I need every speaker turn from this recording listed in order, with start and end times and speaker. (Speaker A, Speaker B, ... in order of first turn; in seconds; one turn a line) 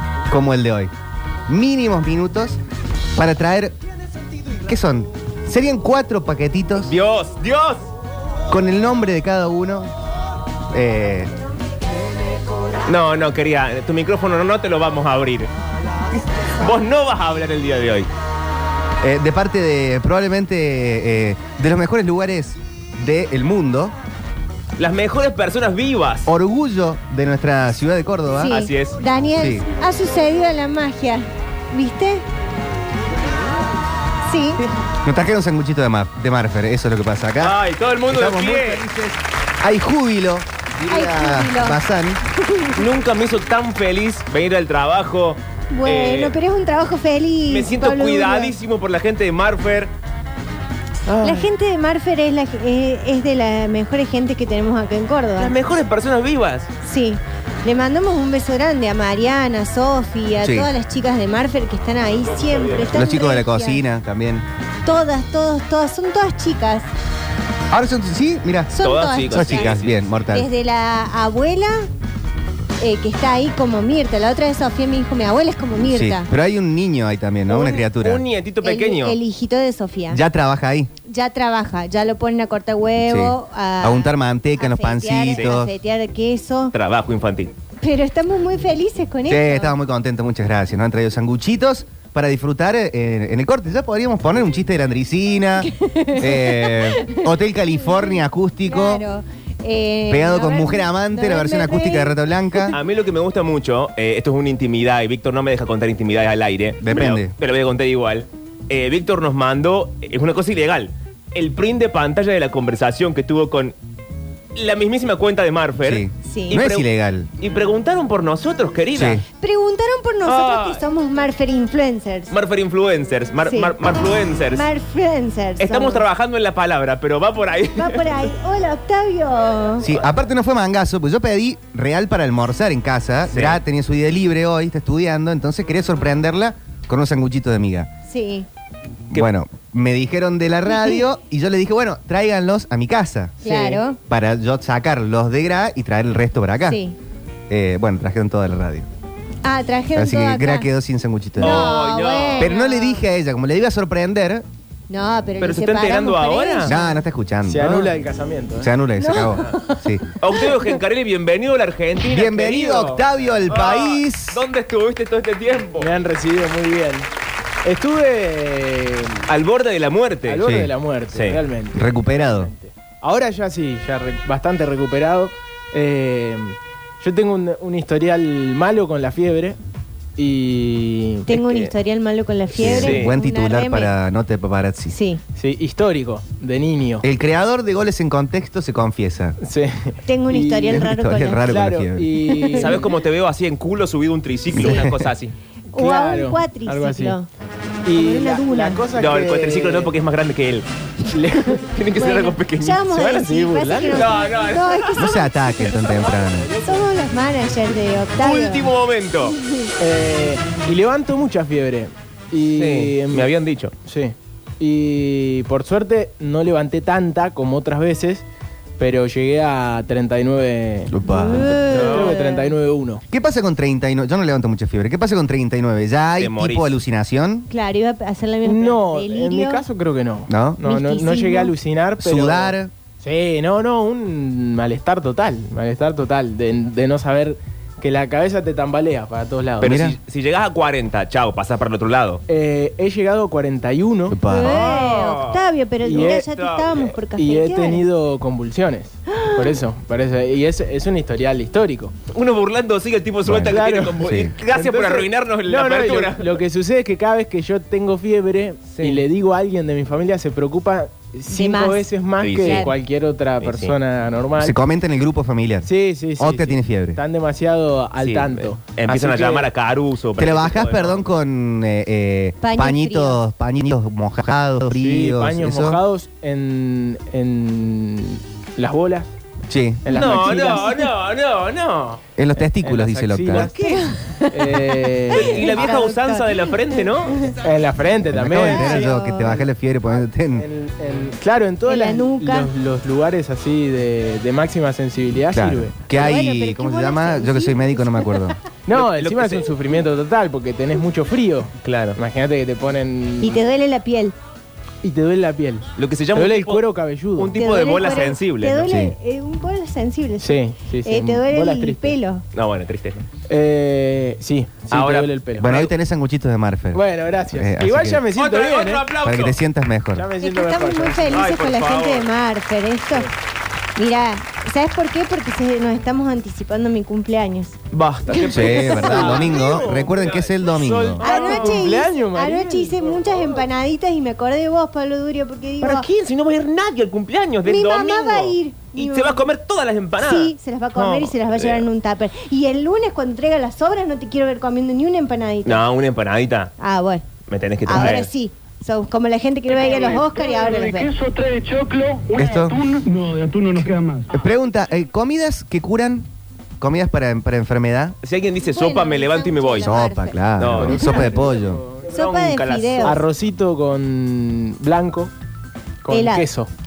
Speaker A: 0.3-0.9
Speaker A: 1.5-2.6
Speaker A: 3.1-3.8
Speaker A: 4.6-6.9
Speaker B: 6.8-7.9
Speaker A: 8.5-9.9
Speaker A: 10.7-11.3
Speaker B: 12.8-15.5
Speaker B: 16.4-18.1
Speaker A: 19.0-23.9
Speaker B: 24.8-26.3
Speaker A: 26.2-28.5
Speaker C: 28.4-32.2
Speaker B: 28.4-29.0
Speaker A: 29.4-29.6
Speaker C: 34.2-34.6
Speaker A: 35.0-37.6
Speaker B: 37.4-38.8
Speaker A: 38.1-42.2
Speaker C: 40.9-42.9
Speaker B: 42.7-46.4
Speaker C: 45.7-48.5
Speaker B: 47.5-49.9
Speaker B: 51.1-51.5
Speaker C: 51.2-55.5
Speaker B: 55.4-56.7
Speaker C: 56.8-63.8
Speaker A: 60.4-60.7
Speaker B: 62.4-63.0
Speaker A: 62.9-64.5
Speaker C: 64.8-66.9
Speaker A: 67.7-68.7
Speaker C: 68.7-69.8
Speaker B: 68.8-70.0
Speaker A: 69.3-70.5
Speaker C: 70.3-71.9
Speaker C: 72.8-76.3
Speaker A: 75.9-78.2
Speaker B: 77.5-79.2
Speaker C: 78.6-80.2
Speaker A: 80.1-80.9
Speaker C: 81.1-86.7
Speaker A: 83.0-85.7
Speaker B: 85.3-85.6
Speaker B: 86.7-87.5
Speaker C: 87.8-89.8
Speaker A: 89.2-99.0
Speaker C: 95.6-102.8
Speaker A: 100.1-102.7
Speaker B: 102.7-113.7
Speaker A: 106.8-107.3
Speaker B: 114.5-119.2
Speaker A: 115.8-117.3
Speaker C: 116.2-116.6
Speaker A: 118.9-119.2
Speaker C: 119.4-122.3
Speaker B: 120.2-120.8
Speaker B: 122.3-124.6
Speaker C: 123.5-123.8
Speaker C: 124.5-126.0
Speaker B: 125.6-128.3
Speaker C: 127.7-129.9
Speaker A: 129.8-137.9
Speaker B: 133.3-133.6
Speaker C: 138.1-138.5
Speaker A: 139.1-146.8
Speaker C: 143.4-144.0
Speaker C: 146.7-147.0
Speaker A: 147.5-148.9
Speaker C: 149.4-150.7
Speaker A: 149.9-151.8
Speaker B: 151.4-152.5
Speaker C: 151.4-153.0
Speaker A: 152.4-154.4
Speaker C: 154.9-157.0
Speaker B: 155.4-156.7
Speaker A: 156.6-157.9
Speaker D: 157.5-158.7
Speaker A: 158.6-160.1
Speaker C: 158.9-160.7
Speaker B: 160.2-165.9
Speaker A: 162.1-164.4
Speaker D: 165.8-167.1
Speaker D: 167.6-169.2
Speaker B: 169.3-170.5
Speaker D: 170.2-179.6
Speaker A: 170.4-170.7
Speaker B: 171.1-171.4
Speaker A: 171.7-172.5
Speaker D: 180.2-181.3
Speaker C: 181.2-183.9
Speaker B: 181.3-181.7
Speaker A: 182.5-184.9
Speaker B: 182.6-183.1
Speaker C: 184.9-185.2
Speaker D: 185.3-187.1
Speaker A: 187.0-189.4
Speaker D: 189.4-190.9
Speaker C: 190.0-191.5
Speaker A: 190.7-192.2
Speaker D: 191.4-192.9
Speaker C: 192.2-192.8
Speaker B: 192.6-195.3
Speaker A: 194.5-195.1
Speaker C: 195.7-197.3
Speaker D: 195.7-197.2
Speaker D: 197.8-199.9
Speaker C: 197.9-198.8
Speaker B: 198.9-200.7
Speaker D: 201.1-201.6
Speaker B: 201.6-202.8
Speaker C: 201.9-208.7
Speaker D: 202.9-204.3
Speaker B: 203.9-205.2
Speaker A: 205.0-206.5
Speaker D: 205.7-206.9
Speaker B: 208.2-209.4
Speaker C: 209.3-209.7
Speaker D: 209.8-213.3
Speaker B: 212.4-213.7
Speaker D: 213.8-218.2
Speaker D: 218.8-223.0
Speaker A: 220.9-221.6
Speaker C: 221.0-222.5
Speaker B: 221.7-222.2
Speaker A: 223.1-227.5
Speaker B: 226.2-226.7
Speaker C: 227.5-229.6
Speaker D: 228.4-239.8
Speaker A: 230.3-230.6
Speaker C: 230.6-231.5
Speaker A: 232.0-232.7
Speaker B: 239.6-242.2
Speaker A: 239.6-239.9
Speaker D: 242.3-244.2
Speaker A: 244.1-244.6
Speaker C: 244.2-247.8
Speaker B: 244.4-245.4
Speaker D: 245.8-246.2
Speaker B: 245.9-246.9
Speaker D: 247.2-251.9
Speaker C: 249.1-249.6
Speaker B: 252.1-256.4
Speaker A: 253.2-254.3
Speaker D: 253.5-264.6
Speaker B: 258.7-259.0
Speaker C: 261.3-261.9
Speaker B: 262.2-262.7
Speaker C: 262.4-262.7
Speaker B: 263.4-263.8
Speaker A: 264.4-267.0
Speaker D: 265.6-269.5
Speaker B: 268.0-271.1
Speaker A: 270.2-275.8
Speaker C: 272.4-273.2
Speaker D: 274.7-279.1
Speaker A: 279.5-279.9
Speaker D: 279.8-280.8
Speaker B: 279.9-282.0
Speaker C: 280.2-280.8
Speaker A: 282.2-283.5
Speaker D: 282.4-283.5
Speaker C: 283.3-287.3
Speaker B: 283.3-283.8
Speaker D: 284.3-285.4
Speaker B: 285.1-287.2
Speaker D: 287.4-295.7
Speaker A: 288.1-290.4
Speaker C: 288.3-289.4
Speaker C: 291.6-292.5
Speaker A: 295.3-298.4
Speaker C: 295.9-298.3
Speaker D: 298.6-303.4
Speaker B: 298.7-299.7
Speaker B: 301.6-302.0
Speaker C: 303.2-304.1
Speaker D: 304.8-307.4
Speaker B: 305.8-306.6
Speaker B: 307.1-308.7
Speaker C: 307.3-312.2
Speaker A: 308.7-308.9
Speaker D: 310.2-312.0
Speaker B: 312.3-313.1
Speaker D: 313.3-315.5
Speaker B: 314.7-315.7
Speaker A: 315.4-318.0
Speaker D: 316.7-318.9
Speaker B: 318.1-319.4
Speaker A: 319.0-320.1
Speaker D: 319.9-321.2
Speaker C: 320.2-323.1
Speaker B: 321.1-322.1
Speaker C: 323.8-327.6
Speaker B: 327.7-331.8
Speaker C: 328.1-329.3
Speaker A: 328.2-331.0
Speaker D: 328.7-333.3
Speaker C: 331.0-335.9
Speaker B: 335.6-341.7
Speaker C: 337.4-339.2
Speaker C: 340.0-345.6
Speaker B: 345.4-346.5
Speaker C: 346.6-347.0
Speaker B: 347.3-348.1
Speaker C: 347.6-350.9
Speaker E: 349.9-354.3
Speaker A: 352.1-352.6
Speaker A: 354.1-356.1
Speaker A: 356.6-358.0
Speaker B: 358.0-359.8
Speaker C: 358.4-360.2
Speaker A: 359.6-361.6
Speaker B: 360.4-361.1
Speaker D: 360.6-361.9
Speaker C: 360.8-361.1
Speaker B: 361.9-363.0
Speaker C: 361.9-363.0
Speaker D: 362.8-365.1
Speaker D: 365.8-366.5
Speaker C: 365.9-366.3